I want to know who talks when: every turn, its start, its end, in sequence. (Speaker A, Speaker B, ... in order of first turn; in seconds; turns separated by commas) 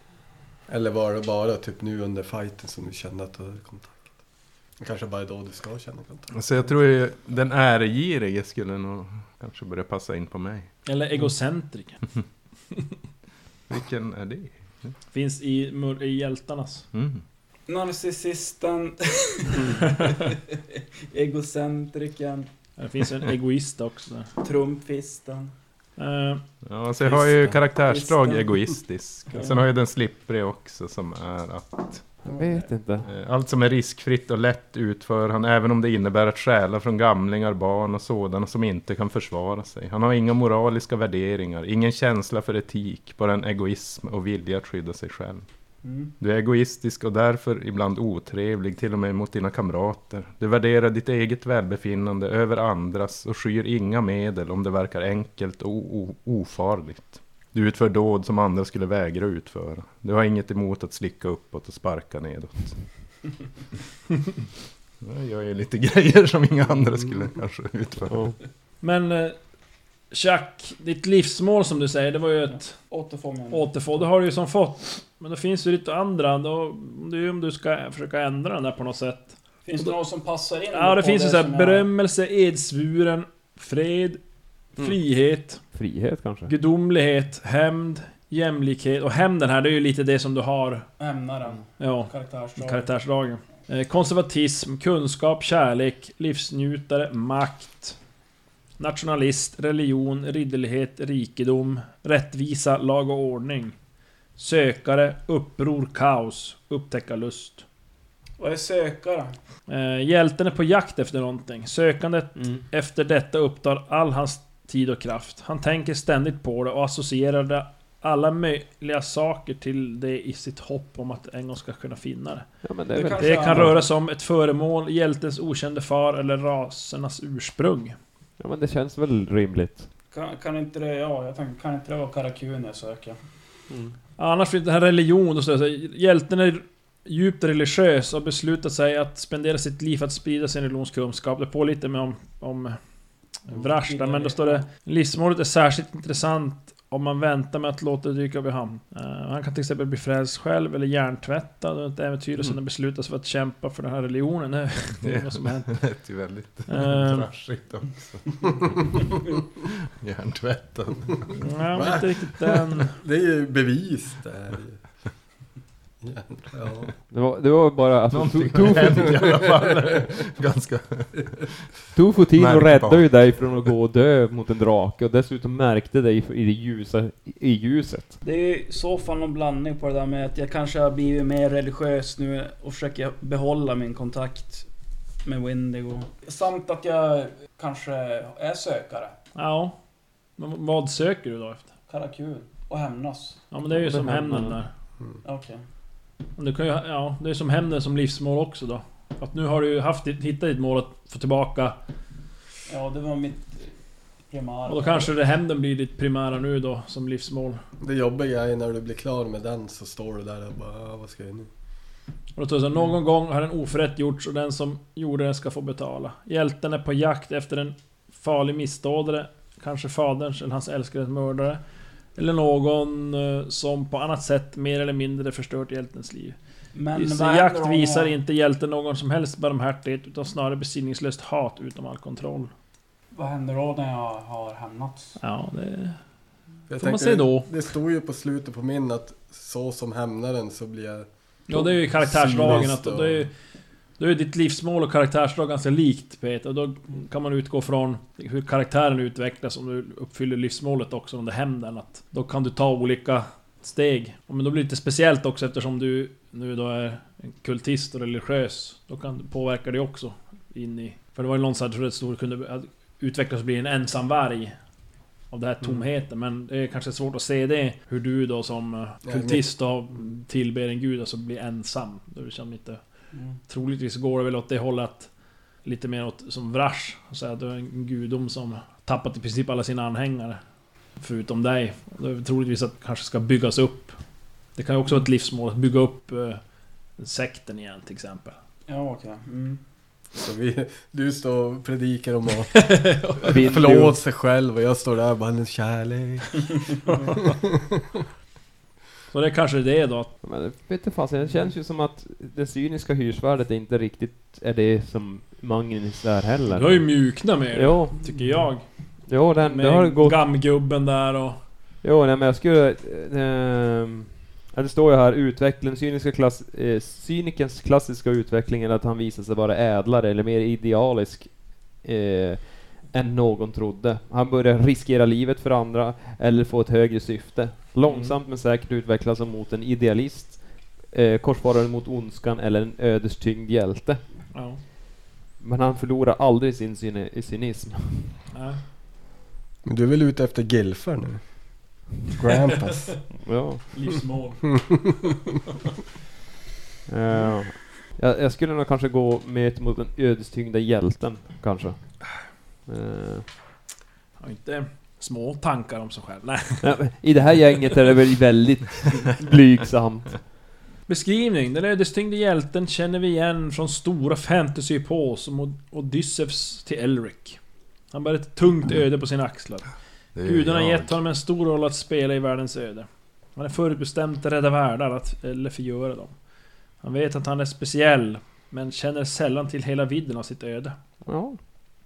Speaker A: 0.7-4.1, Speaker A: 4.8-6.7, Speaker B: 6.3-10.7, Speaker C: 10.9-12.0, Speaker B: 13.7-14.9, Speaker C: 15.1-16.9, Speaker B: 16.9-17.2, Speaker D: 17.7-20.6, Speaker C: 19.9-20.2, Speaker D: 21.1-22.5, Speaker C: 22.8-24.3, Speaker D: 24.4-25.5, Speaker C: 26.0-26.4, Speaker B: 26.6-32.2, Speaker D: 27.0-28.5, Speaker D: 29.3-29.6, Speaker E: 32.2-33.1, Speaker D: 32.3-32.6, Speaker B: 33.0-45.5, Speaker D: 45.8-46.1, Speaker B: 46.2-62.8, Speaker B: 65.0-68.2, Speaker E: 68.1-68.4, Speaker C: 68.8-69.4, Speaker C: 70.1-72.8, Speaker D: 72.9-73.7, Speaker C: 73.5-80.0, Speaker D: 79.7-81.9, Speaker C: 80.7-84.2, Speaker C: 84.8-85.6, Speaker E: 85.7-86.5, Speaker C: 86.5-90.9, Speaker D: 91.0-92.9, Speaker C: 91.8-98.0, Speaker C: 98.8-103.8, Speaker C: 104.4-107.7, Speaker D: 108.4-109.3, Speaker C: 109.7-122.5, Speaker E: 112.4-112.6, Speaker E: 122.6-123.8, Speaker D: 123.0-123.9, Speaker C: 123.2-128.0, Speaker E: 128.4-129.9, Speaker D: 130.1-133.2, Speaker C: 134.2-142.8, Speaker C: 143.4-155.8, Speaker D: 143.5-144.7, Speaker B: 155.0-159.0, Speaker C: 156.7-157.3, Speaker B: 160.0-161.4, Speaker C: 161.4-162.9, Speaker A: 161.7-164.8, Speaker A: 166.0-166.9, Speaker E: 167.1-169.3, Speaker B: 168.1-171.5, Speaker E: 171.9-178.2, Speaker B: 172.4-173.7, Speaker D: 178.2-184.7, Speaker D: 185.2-189.2, Speaker C: 189.3-189.8, Speaker C: 190.4-191.7, Speaker D: 191.9-193.4, Speaker C: 193.5-194.7, Speaker E: 193.7-194.6, Speaker D: 195.2-195.6, Speaker C: 196.4-201.8, Speaker D: 202.7-203.7, Speaker D: 204.3-205.1, Speaker C: 204.7-207.6, Speaker A: 207.8-211.5, Speaker C: 212.4-221.6, Speaker C: 222.2-226.4, Speaker D: 226.8-228.1, Speaker C: 226.9-232.5, Speaker D: 233.1-235.2, Speaker C: 235.2-236.0, Speaker A: 236.7-243.3, Speaker C: 236.8-237.5, Speaker C: 241.5-243.3, Speaker C: 244.0-264.6, Speaker C: 265.3-272.8, Speaker A: 269.0-269.5, Speaker C: 273.5-275.1, Speaker C: 275.6-280.4, Speaker C: 281.0-284.0, Speaker C: 284.6-286.4, Speaker C: 287.0-288.4, Speaker D: 288.7-289.6, Speaker A: 290.2-296.7, Speaker C: 292.5-293.4, Speaker E: 293.3-294.0, Speaker C: 296.9-297.4, Speaker C: 299.1-300.1, Speaker E: 300.2-308.1, Speaker C: 306.5-308.7, Speaker A: 308.2-308.4, Speaker E: 309.1-310.2, Speaker C: 309.2-311.4, Speaker E: 311.8-334.0, Speaker C: 327.8-328.2, Speaker C: 334.3-334.6, Speaker E: 335.4-338.2, Speaker C: 338.3-338.6, Speaker A: 339.6-343.1, Speaker E: 343.2-343.6, Speaker C: 343.7-344.9, Speaker E: 346.9-353.3, Speaker C: 354.2-356.7, Speaker E: 356.6-360.2, Speaker C: 360.9-367.4, Speaker C: 367.9-369.7, Speaker B: 370.2-371.0, Speaker C: 370.2-376.1, Speaker C: 376.8-380.8, Speaker E: 381.1-381.4